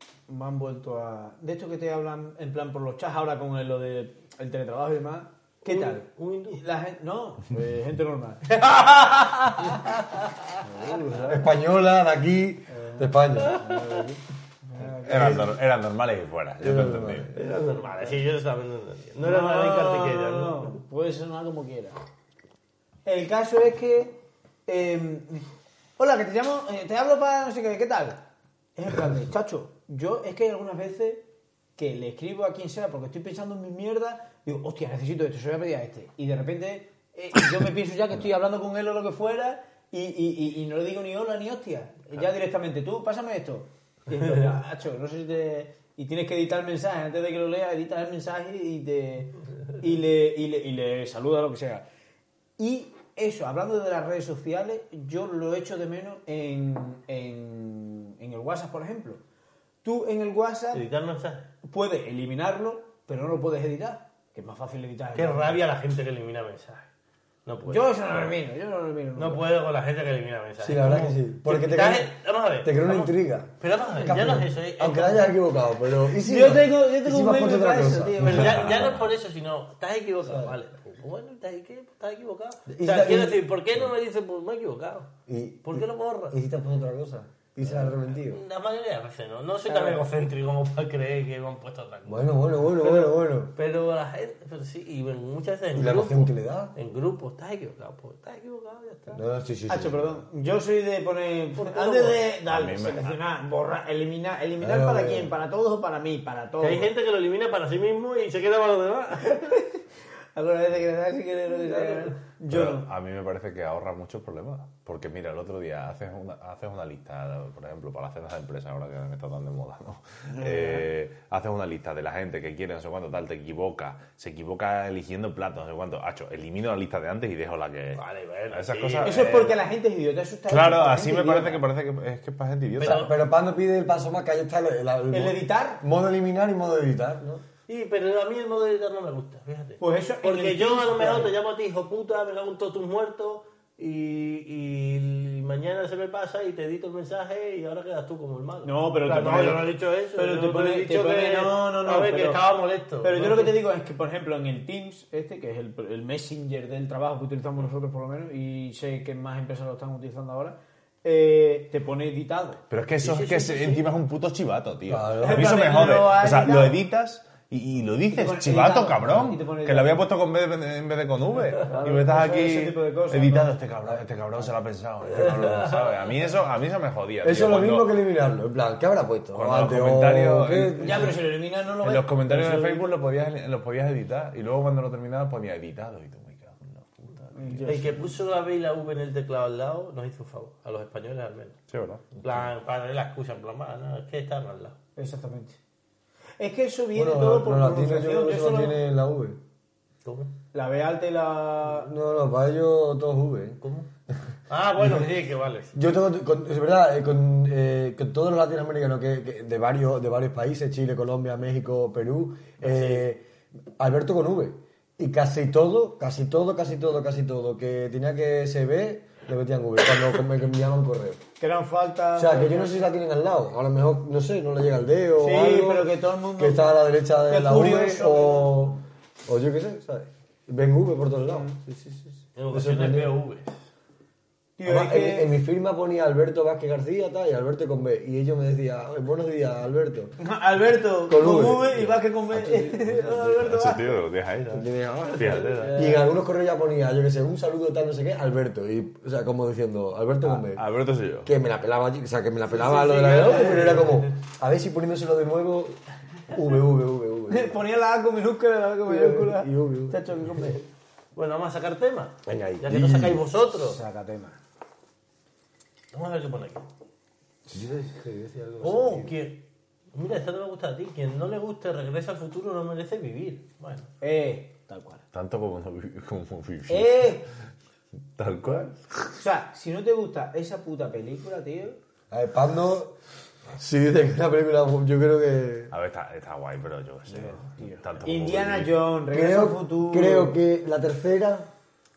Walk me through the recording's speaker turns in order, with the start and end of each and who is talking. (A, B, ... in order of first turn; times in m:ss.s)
0:00.3-0:09.0 A
0:05.6-0:06.6 B
0:08.5-0:10.5 B
0:10.6-0:11.4 A
0:11.3-0:13.6 C
0:12.7-0:15.6 A
0:15.0-0:17.3 D
0:15.1-0:15.4 C
0:16.6-0:17.4 C
0:17.3-0:20.8 B
0:19.2-0:22.0 A
0:23.0-0:28.2 A
0:28.8-0:51.8 A
0:52.6-0:59.2 A
0:59.8-1:00.8 A
1:00.7-1:01.5 B
1:01.6-1:05.6 A
1:05.2-1:06.9 B
1:07.5-1:08.4 B
1:07.7-1:09.4 A
1:09.2-1:15.4 B
1:10.6-1:18.7 C
1:16.2-1:18.7 A
1:18.2-1:25.1 B
1:18.4-1:19.1 D
1:20.2-1:20.6 C
1:22.7-1:23.5 C
1:25.3-1:28.4 C
1:25.7-1:26.4 B
1:27.7-1:39.2 B
1:32.1-1:33.5 C
1:35.8-1:36.7 C
1:39.1-1:40.2 C
1:39.7-1:46.9 A
1:41.6-1:42.2 B
1:42.5-1:43.2 D
1:44.6-1:45.3 C
1:46.6-1:49.6 B
1:49.3-1:49.8 A
1:50.4-1:52.9 A
1:52.5-2:09.6 D
2:00.3-2:00.9 A
2:08.0-2:09.3 B
2:09.0-2:11.6 A
2:10.5-2:13.1 D
2:12.8-2:13.2 B
2:12.8-2:17.4 C
2:15.1-2:15.8 A
2:17.7-2:33.6 B
2:19.8-2:21.3 A
2:28.6-2:32.4 A
2:33.0-2:42.6 A
2:42.7-2:57.9 D
2:43.0-2:43.9 B
2:44.9-2:45.6 C
2:45.2-2:46.8 A
2:48.1-2:50.1 A
2:51.6-2:53.9 A
2:55.4-2:55.9 B
2:57.2-3:01.2 C
2:59.3-3:01.2 D
3:00.8-3:02.9 A
3:01.8-3:07.7 D
3:07.3-3:08.0 A
3:07.7-3:11.6 B
3:11.7-3:12.2 D
3:12.2-3:14.8 B
3:15.0-3:15.6 A
3:16.4-3:18.8 A
3:16.9-3:19.4 C
3:20.0-3:20.3 B
3:20.5-3:21.9 A
3:21.7-3:23.6 C
3:23.6-3:23.9 B
3:24.5-3:25.8 B
3:24.8-3:25.1 C
3:25.7-3:33.2 C
3:32.6-3:33.1 B
3:33.8-3:41.2 C
3:41.4-3:42.7 A
3:42.2-3:53.2 C
3:45.2-3:48.8 A
3:51.3-3:51.6 A
3:52.4-3:53.6 B
3:54.6-3:55.4 A
3:54.7-4:00.2 C
4:00.2-4:04.0 A
4:01.1-4:03.2 C
4:03.3-4:05.9 D
4:04.5-4:10.6 C
4:05.2-4:06.1 A
4:10.2-4:11.3 D
4:11.2-4:17.6 C
4:12.6-4:14.0 B
4:12.9-4:13.8 A
4:17.3-4:20.6 A
4:18.9-4:20.5 C
4:21.2-4:23.8 B
4:22.2-4:23.2 C
4:23.5-4:24.4 A
4:25.9-4:26.7 B
4:27.5-4:29.1 C
4:28.6-4:33.9 B
4:34.0-4:35.0 A
4:35.1-4:37.2 D
4:36.7-4:37.3 A
4:38.2-4:39.1 D
4:39.2-4:41.8 A
4:42.1-4:43.0 C
4:43.6-4:45.7 C
4:45.7-4:48.8 D
4:47.1-4:50.4 A
4:49.1-4:51.5 C